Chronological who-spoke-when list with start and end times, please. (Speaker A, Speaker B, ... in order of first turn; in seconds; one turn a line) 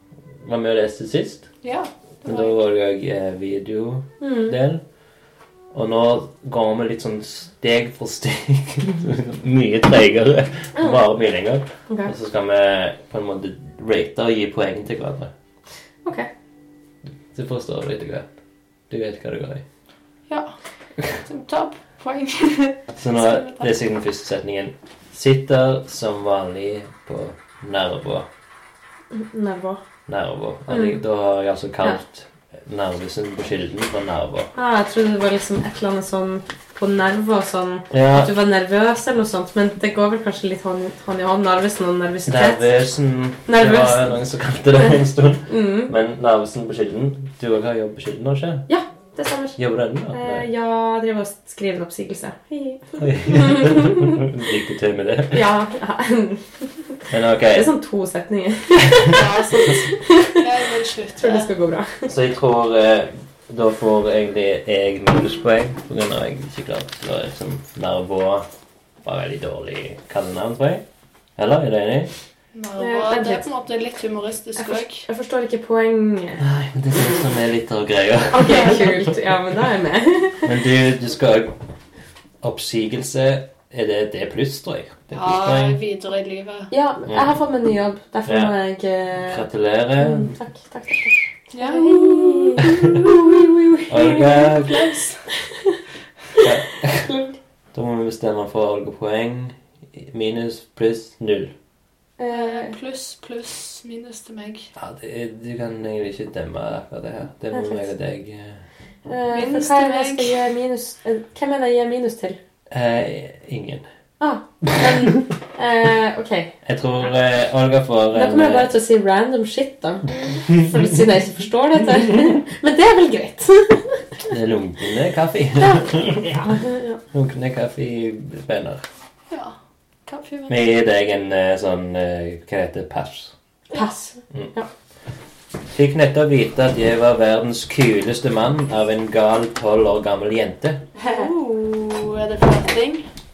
Speaker A: 0.4-1.5
Speaker B: 1.6-2.5
Speaker A: 2.2-4.8
Speaker C: 4.2-4.5
Speaker A: 5.7-15.3
Speaker A: 17.3-18.3
Speaker A: 18.9-19.6
Speaker B: 21.2-23.7
Speaker A: 23.0-28.3
Speaker C: 29.1-29.8
Speaker A: 30.1-34.5
Speaker C: 30.7-31.0
Speaker C: 34.5-42.6
Speaker A: 37.9-38.3
Speaker A: 42.2-48.7
Speaker C: 43.5-44.2
Speaker C: 44.8-45.9
Speaker C: 48.7-49.6
Speaker A: 49.6-50.5
Speaker C: 50.1-54.2
Speaker A: 53.0-55.5
Speaker C: 55.3-56.5
Speaker A: 57.1-57.7
Speaker C: 57.5-60.4
Speaker B: 59.1-61.5
Speaker C: 61.2-62.1
Speaker A: 62.1-68.5
Speaker A: 69.0-70.8
Speaker A: 71.4-72.1
Speaker B: 72.5-75.1
Speaker C: 72.8-73.4
Speaker C: 74.6-76.4
Speaker A: 76.4-79.1
Speaker C: 78.3-80.5
Speaker A: 80.4-81.5
Speaker A: 82.4-85.8
Speaker B: 85.1-86.7
Speaker C: 86.7-89.4
Speaker A: 88.2-88.5
Speaker A: 89.2-90.3
Speaker C: 90.0-94.5
Speaker B: 91.5-93.2
Speaker A: 93.9-94.9
Speaker B: 94.4-95.3
Speaker A: 96.4-97.1
Speaker C: 97.0-97.3
Speaker A: 97.7-101.5
Speaker C: 102.2-102.7
Speaker B: 102.3-104.7
Speaker A: 104.8-108.6
Speaker C: 107.5-107.9
Speaker C: 109.0-112.4
Speaker B: 109.3-110.4
Speaker A: 112.7-113.8
Speaker C: 114.2-116.5
Speaker A: 114.8-115.2
Speaker A: 116.7-118.7
Speaker C: 118.1-123.9
Speaker A: 124.3-126.4
Speaker C: 125.6-127.0
Speaker A: 127.1-128.8
Speaker B: 129.3-129.6
Speaker B: 130.1-130.6
Speaker A: 130.5-133.3
Speaker C: 133.7-134.7
Speaker A: 135.7-140.8
Speaker B: 141.0-143.1
Speaker C: 141.0-141.3